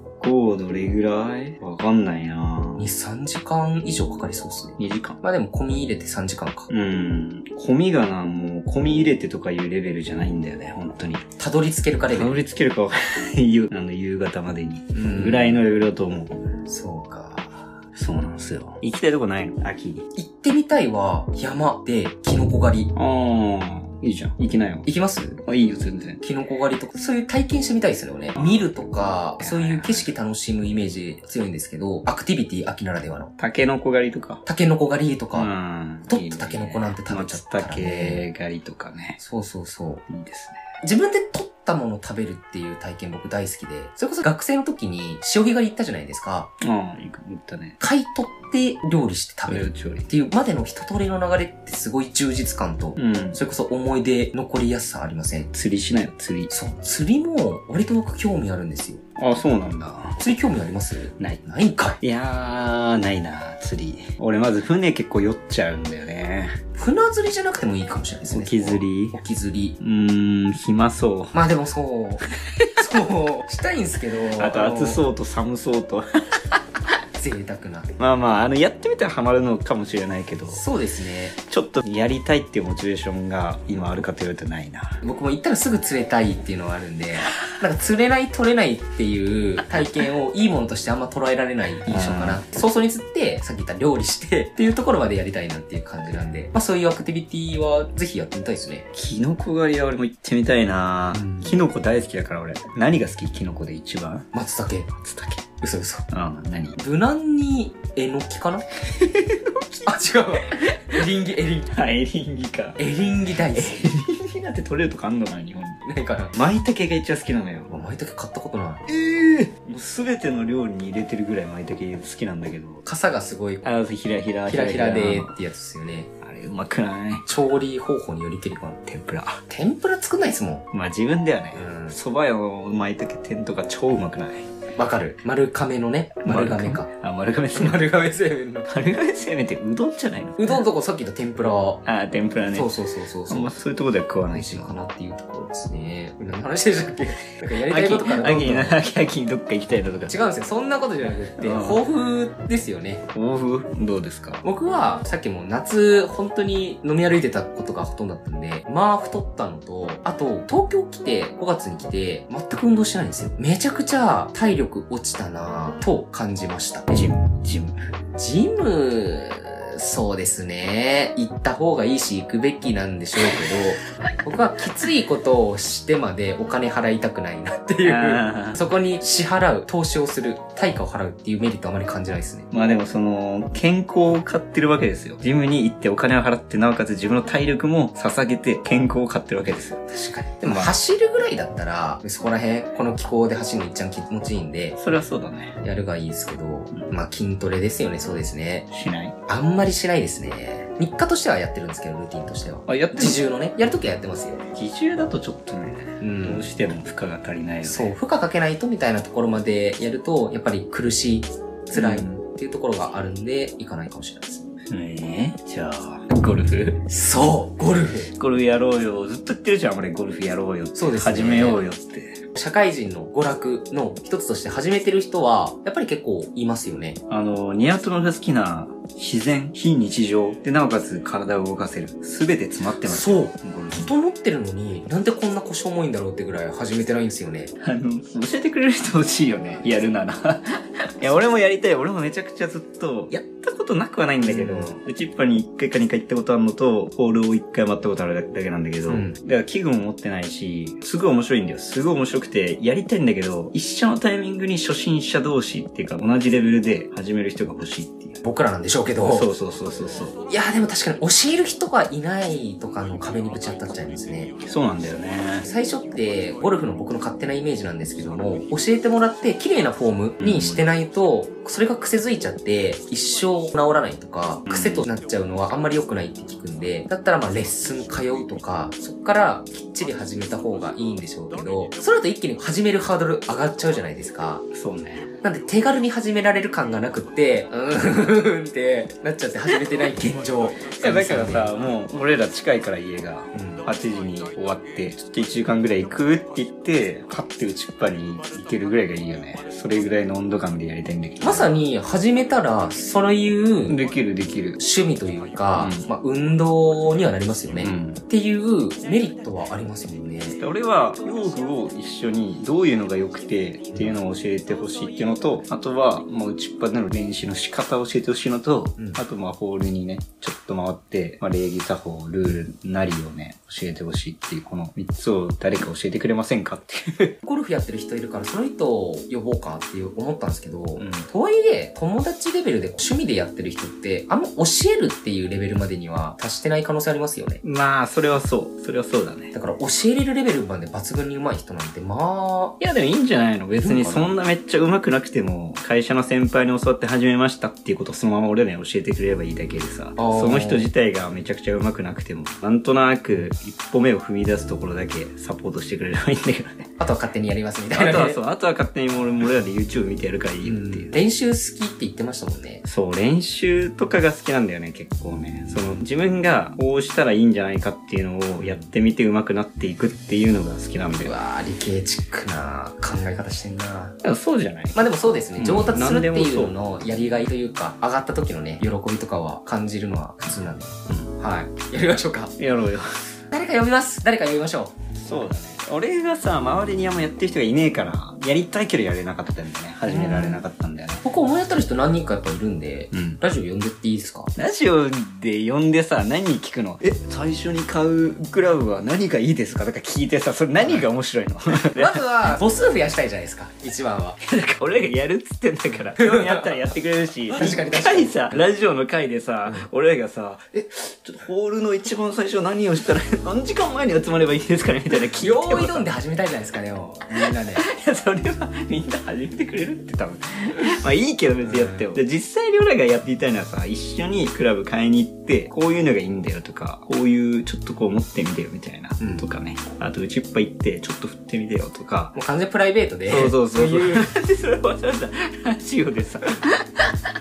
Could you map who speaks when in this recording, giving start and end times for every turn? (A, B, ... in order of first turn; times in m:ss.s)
0:00.1-0:02.9 A
0:02.8-0:06.7 B
0:04.8-0:05.2 A
0:06.7-0:11.3 A
0:11.4-0:12.4 B
0:12.1-0:16.4 A
0:14.9-0:15.6 B
0:16.6-0:17.7 B
0:17.9-0:20.0 A
0:20.1-0:22.9 B
0:22.9-0:24.8 A
0:24.8-0:25.4 B
0:25.4-0:26.2 A
0:26.2-0:33.3 B
0:28.4-0:28.7 A
0:29.4-0:30.1 A
0:33.4-0:34.4 A
0:34.4-0:35.5 B
0:35.3-0:39.2 A
0:36.0-0:38.2 B
0:39.2-0:40.0 B
0:40.1-0:40.6 A
0:40.8-0:46.5 B
0:46.6-0:47.8 A
0:47.8-0:55.5 B
0:49.5-0:50.1 A
0:53.0-0:53.4 A
0:55.5-0:56.5 A
0:56.5-0:59.0 B
0:59.2-1:00.2 A
1:00.2-1:02.0 B
1:02.0-1:06.6 A
1:06.7-1:09.8 B
1:08.3-1:09.2 A
1:09.8-1:11.3 A
1:11.3-1:12.2 B
1:12.6-1:12.8 A
1:12.8-1:15.0 B
1:14.4-1:16.6 A
1:17.2-1:17.9 B
1:18.0-1:20.6 A
1:20.5-1:21.4 B
1:21.4-1:25.0 A
1:25.0-1:38.9 B
1:31.9-1:32.4 A
1:38.9-1:44.3 A
1:41.1-1:41.5 B
1:44.3-1:44.9 B
1:45.0-1:45.4 A
1:45.6-1:46.0 B
1:46.1-1:46.8 A
1:46.8-1:48.6 B
1:48.9-1:51.0 A
1:49.8-1:51.7 B
1:51.7-1:52.8 A
1:52.8-1:53.8 B
1:53.5-1:57.7 A
1:55.8-1:56.4 B
1:57.7-1:58.8 B
1:58.9-2:02.8 A
2:02.8-2:03.7 B
2:03.6-2:05.4 A
2:04.5-2:06.1 B
2:06.2-2:07.2 A
2:07.2-2:08.8 B
2:08.8-2:09.4 A
2:09.5-2:10.6 B
2:10.7-2:14.5 A
2:11.5-2:12.0 B
2:14.8-2:16.9 B
2:16.2-2:17.9 A
2:17.5-2:18.7 B
2:18.7-2:20.6 A
2:20.4-2:21.8 B
2:21.8-2:24.8 A
2:22.5-2:23.6 B
2:24.3-2:28.8 B
2:27.5-2:30.1 A
2:30.1-2:33.0 B
2:31.4-2:31.8 A
2:33.1-2:34.4 A
2:34.4-2:47.1 B
2:46.9-2:47.8 A
2:48.1-3:02.5 B
2:57.8-2:58.6 A
3:02.5-3:09.8 A
3:09.9-3:14.8 B
3:10.4-3:10.7 A
3:14.8-3:15.6 A
3:15.6-3:18.7 B
3:18.7-3:19.2 A
3:19.3-3:24.4 B
3:22.7-3:23.2 A
3:24.5-3:27.9 A
3:26.0-3:26.5 B
3:27.6-3:34.5 B
3:31.7-3:32.2 A
3:34.7-3:36.8 A
3:36.8-3:38.1 B
3:38.1-3:42.2 A
3:40.7-3:41.6 B
3:42.3-3:47.0 B
3:47.1-3:53.9 A
3:52.8-3:57.5 B
3:57.6-4:00.5 A
4:01.0-4:18.2 A
4:04.2-4:04.7 B
4:08.8-4:09.2 B
4:18.2-4:19.3 B
4:19.0-4:20.1 A
4:20.3-4:24.3 B
4:24.4-4:25.5 A
4:25.4-4:44.4 B
4:30.2-4:30.6 A
4:34.4-4:34.8 A
4:44.5-4:45.1 A
4:45.2-4:51.5 B
4:50.8-5:01.5 A
4:53.3-4:53.6 B
5:01.2-5:03.8 B
5:03.7-5:04.6 A
5:04.6-5:10.4 B
5:05.5-5:05.8 A
5:07.6-5:08.0 A
5:10.4-5:27.2 A
5:27.2-5:37.4 B
5:30.8-5:31.1 A
5:37.4-5:39.3 A
5:39.3-5:42.6 B
5:42.6-5:56.7 A
5:43.6-5:44.1 B
5:50.0-5:50.7 B
5:56.8-5:58.2 B
5:57.7-6:00.9 A
6:00.4-6:02.6 B
6:02.6-6:11.1 A
6:08.4-6:08.7 B
6:11.0-6:14.0 B
6:14.0-6:14.8 A
6:14.7-6:22.3 B
6:15.4-6:16.6 A
6:22.4-6:23.2 A
6:23.3-6:24.7 B
6:25.0-6:31.0 A
6:29.8-6:30.4 B
6:31.0-6:34.3 B
6:32.9-6:33.2 A
6:34.4-6:42.0 A
6:40.6-6:40.8 B
6:41.5-6:44.2 B
6:44.2-6:55.9 A
6:46.0-6:46.5 B
6:47.3-6:48.5 B
6:54.9-6:57.6 B
6:57.2-7:12.1 A
7:01.4-7:01.9 B
7:09.0-7:09.2 B
7:12.1-7:14.1 B
7:13.1-7:16.9 A